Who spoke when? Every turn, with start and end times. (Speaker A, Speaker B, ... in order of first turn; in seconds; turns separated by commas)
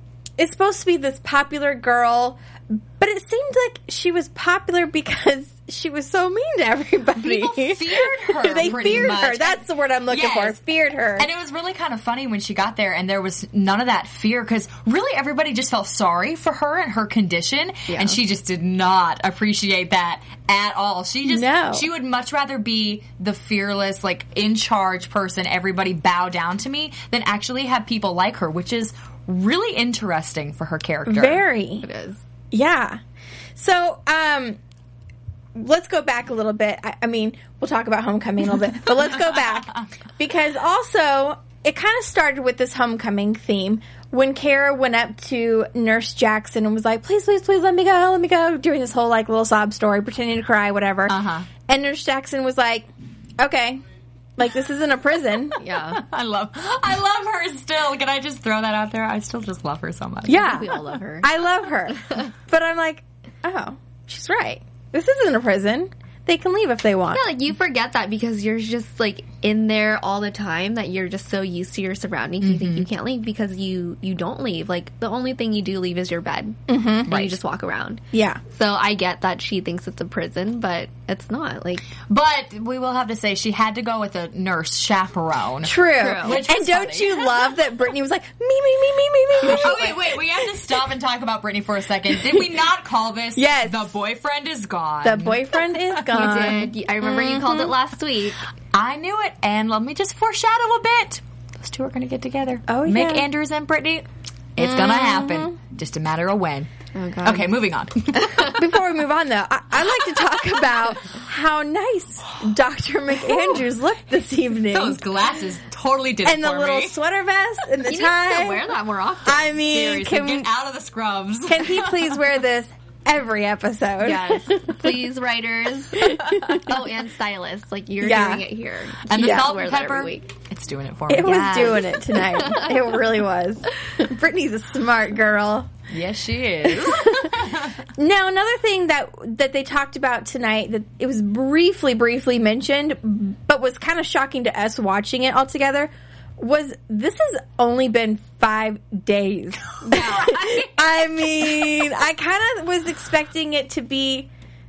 Speaker A: 0.4-11.3, Speaker B: 7.2-10.6, Speaker B: 11.2-31.4, Speaker C: 17.9-18.2, Speaker A: 21.3-21.9, Speaker A: 31.1-31.8, Speaker C: 31.8-32.2, Speaker A: 32.5-33.0, Speaker A: 33.5-34.6, Speaker A: 35.5-51.1, Speaker B: 51.1-51.5, Speaker A: 51.7-52.9, Speaker A: 53.4-53.8, Speaker A: 54.4-55.6, Speaker C: 55.6-56.0, Speaker B: 55.9-60.6, Speaker A: 60.3-67.2, Speaker C: 60.3-61.3, Speaker C: 67.1-81.9, Speaker B: 72.4-72.8, Speaker A: 76.7-77.1, Speaker B: 77.1-77.3, Speaker A: 78.1-78.4, Speaker B: 82.0-87.3, Speaker A: 85.6-90.2, Speaker C: 86.0-86.4, Speaker B: 89.4-96.0, Speaker A: 93.3-93.9, Speaker A: 95.0-96.7, Speaker C: 96.1-98.4, Speaker B: 97.3-97.7, Speaker B: 98.7-106.7, Speaker A: 102.7-103.2, Speaker A: 104.6-105.5, Speaker C: 106.9-107.6, Speaker B: 107.2-108.5, Speaker C: 108.2-108.5, Speaker A: 108.4-115.0, Speaker B: 114.7-117.0, Speaker A: 116.2-118.7, Speaker C: 117.8-119.7, Speaker A: 119.2-120.5, Speaker B: 119.7-122.2, Speaker A: 121.5-124.9, Speaker C: 124.0-130.3, Speaker A: 126.0-126.7, Speaker A: 128.0-128.4, Speaker B: 129.1-131.9, Speaker A: 129.2-129.5, Speaker A: 131.1-135.7, Speaker C: 132.4-132.6, Speaker B: 135.9-137.7, Speaker A: 136.6-137.4, Speaker A: 137.9-154.3, Speaker B: 149.8-151.9, Speaker C: 149.9-150.3